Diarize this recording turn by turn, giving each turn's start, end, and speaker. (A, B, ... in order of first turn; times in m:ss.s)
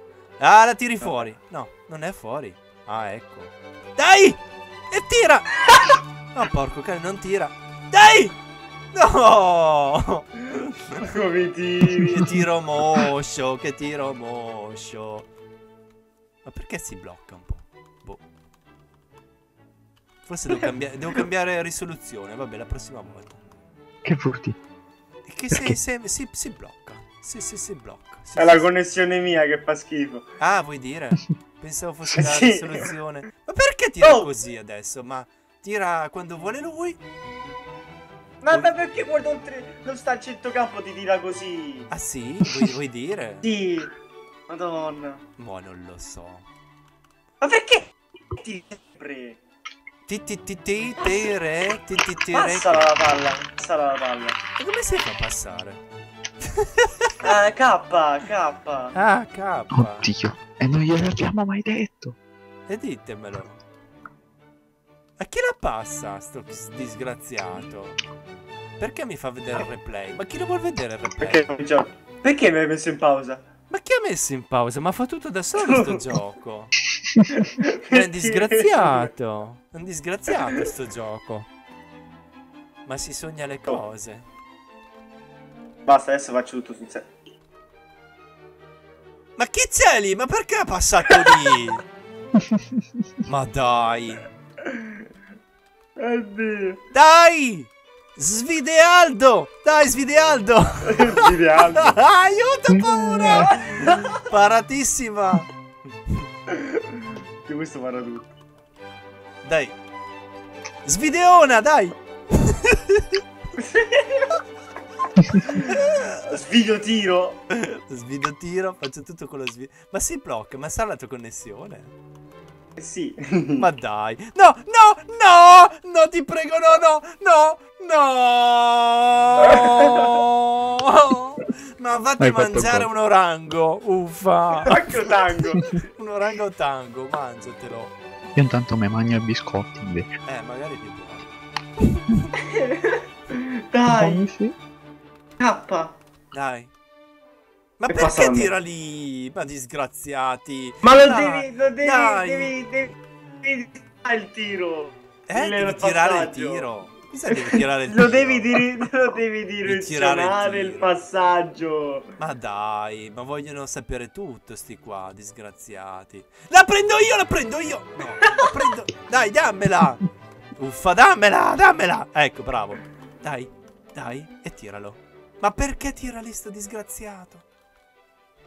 0:00.4-0:08.4 A
0:01.0-0:01.3 B
0:08.9-0:11.0 A
0:11.0-0:12.3 B
0:12.1-0:15.3 A
0:16.4-0:18.2 A
0:20.3-0:23.4 A
0:24.0-0:24.6 C
0:25.2-0:28.7 A
0:28.4-0:30.3 B
0:30.4-0:37.0 A
0:32.2-0:32.9 B
0:34.0-0:34.3 B
0:38.4-0:41.9 B
0:41.9-0:43.5 A
0:43.4-0:43.9 B
0:44.5-0:45.2 B
0:45.4-0:46.5 A
0:47.4-0:49.4 B
0:50.1-0:53.0 A
0:52.3-0:54.4 B
0:54.6-0:55.8 A
0:56.4-0:57.1 A
0:57.2-0:58.9 B
0:58.9-1:00.1 A
0:59.7-1:02.2 C
1:02.7-1:03.6 A
1:05.2-1:08.0 A
1:08.8-1:11.5 A
1:11.2-1:13.4 B
1:13.7-1:16.7 A
1:15.6-1:16.1 B
1:17.0-1:17.3 C
1:17.3-1:19.1 B
1:17.9-1:21.5 A
1:22.8-1:24.2 A
1:25.9-1:27.1 B
1:29.4-1:31.8 A
1:31.3-1:31.5 B
1:33.2-1:34.2 A
1:36.0-1:36.8 B
1:36.9-1:45.5 A
1:40.9-1:42.0 B
1:42.7-1:43.5 C
1:43.3-1:44.2 B
1:46.5-1:46.8 B
1:47.5-1:48.3 B
1:49.4-1:49.8 A
1:50.8-1:53.2 A
1:53.6-1:54.4 B
1:55.4-1:56.3 A
1:56.3-1:57.4 B
1:57.5-2:01.9 A
2:02.8-2:03.7 B
2:03.6-2:14.8 A
2:09.4-2:10.0 B
2:12.2-2:12.9 C
2:14.6-2:15.7 B
2:15.7-2:18.0 A
2:18.4-2:20.2 C
2:20.3-2:22.3 A
2:22.5-2:24.3 B
2:23.9-2:24.6 C
2:25.4-2:26.0 B
2:26.3-2:26.7 A
2:27.8-2:32.5 A
2:27.9-2:28.5 B
2:30.8-2:36.7 B
2:35.3-2:38.6 A
2:37.3-2:42.1 B
2:39.7-2:41.0 A
2:42.2-2:57.4 A
2:48.1-2:48.6 B